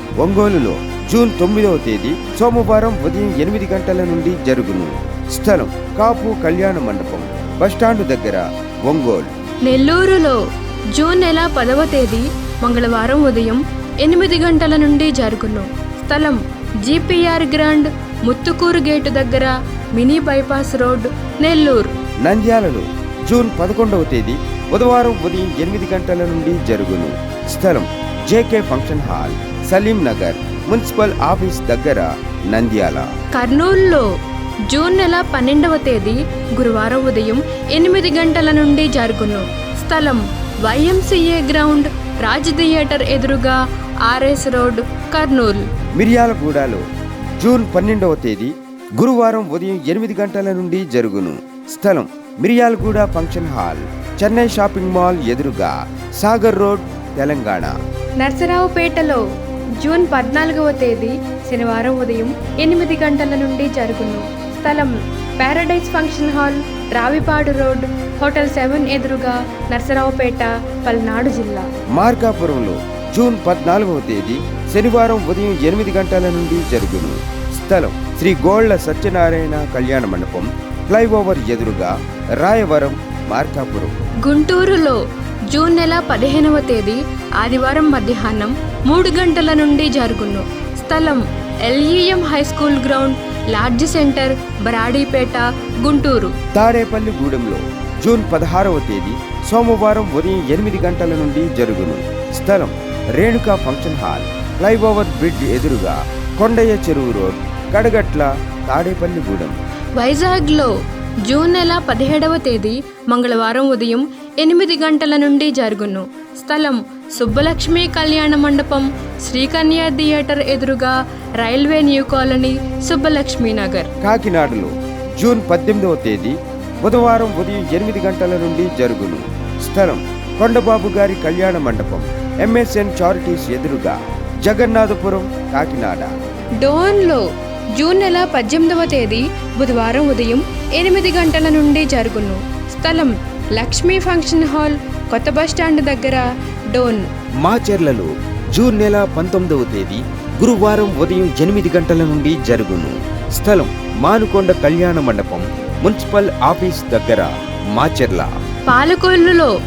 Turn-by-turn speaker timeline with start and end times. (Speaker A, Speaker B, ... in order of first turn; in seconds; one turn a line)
Speaker A: 0.2-9.3
Speaker B: 9.7-10.4
Speaker B: 10.9-21.9
Speaker A: 22.2-33.1
Speaker B: 33.3-34.0
Speaker B: 34.7-45.6
Speaker A: 46.0-46.8
Speaker A: 47.4-57.7
Speaker B: 58.2-59.2
Speaker B: 59.8-71.7
Speaker A: 71.9-83.9
Speaker B: 84.2-85.0
Speaker B: 85.5-96.3
Speaker A: 96.5-109.5
Speaker B: 110.0-110.7
Speaker B: 111.2-123.9
Speaker A: 124.0-136.1
Speaker B: 136.6-137.2
Speaker B: 137.7-147.1
Speaker A: 147.4-158.3
Speaker B: 158.7-159.5